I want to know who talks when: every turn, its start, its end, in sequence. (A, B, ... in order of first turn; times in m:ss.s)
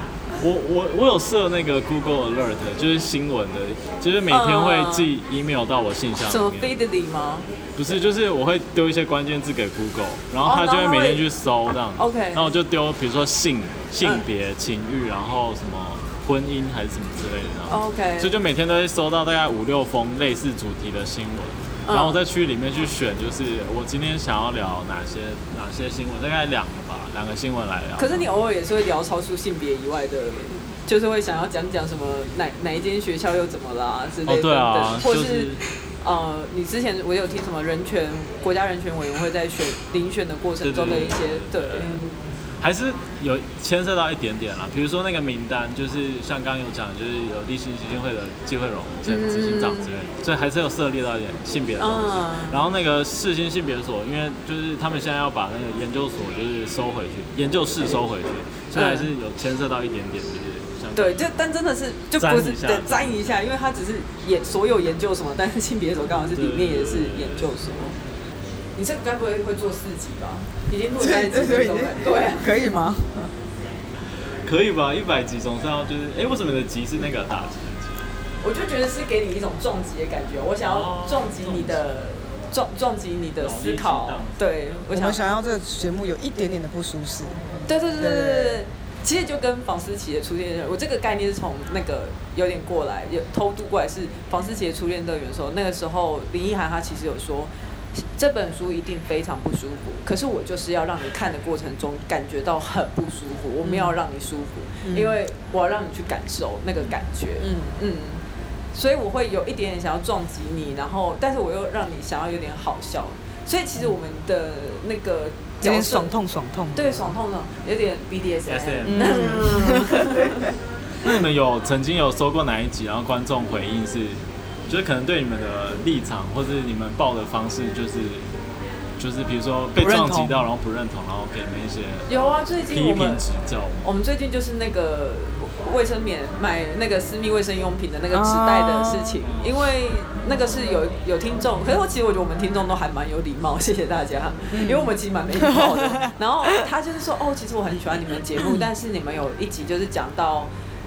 0:00.4-0:06.7 A
0:04.3-0:05.1 B
0:06.3-0:07.5 B
0:07.8-0:28.3 A
0:10.4-0:11.2 B
0:12.0-0:12.5 B
0:17.7-0:18.3 B
0:21.9-0:22.2 B
0:28.0-0:42.0 B
0:34.3-0:35.6 A
0:40.6-0:42.0 A
0:42.6-1:01.3 A
0:49.0-0:49.9 B
0:51.8-0:52.6 B
0:58.7-0:59.1 B
1:00.9-1:08.0 B
1:02.2-1:03.2 A
1:06.4-1:07.5 A
1:08.8-1:12.8 B
1:11.0-1:13.2 C
1:14.4-1:18.1 A
1:18.4-1:25.2 B
1:20.6-1:21.9 A
1:23.4-1:24.5 A
1:24.9-1:27.4 C
1:27.7-1:48.2 B
1:28.0-1:28.6 C
1:43.6-1:44.0 C
1:44.8-1:45.2 C
1:48.7-1:56.1 B
1:55.6-1:57.1 C
1:56.8-2:00.5 B
1:58.5-1:59.4 A
1:58.9-2:00.5 C
2:01.0-2:08.3 A
2:09.0-2:12.1 A
2:09.8-2:10.4 C
2:12.1-2:13.2 B
2:12.7-2:13.9 A
2:13.8-2:30.5 B
2:18.1-2:19.2 C
2:19.2-2:19.5 A
2:24.5-2:26.1 C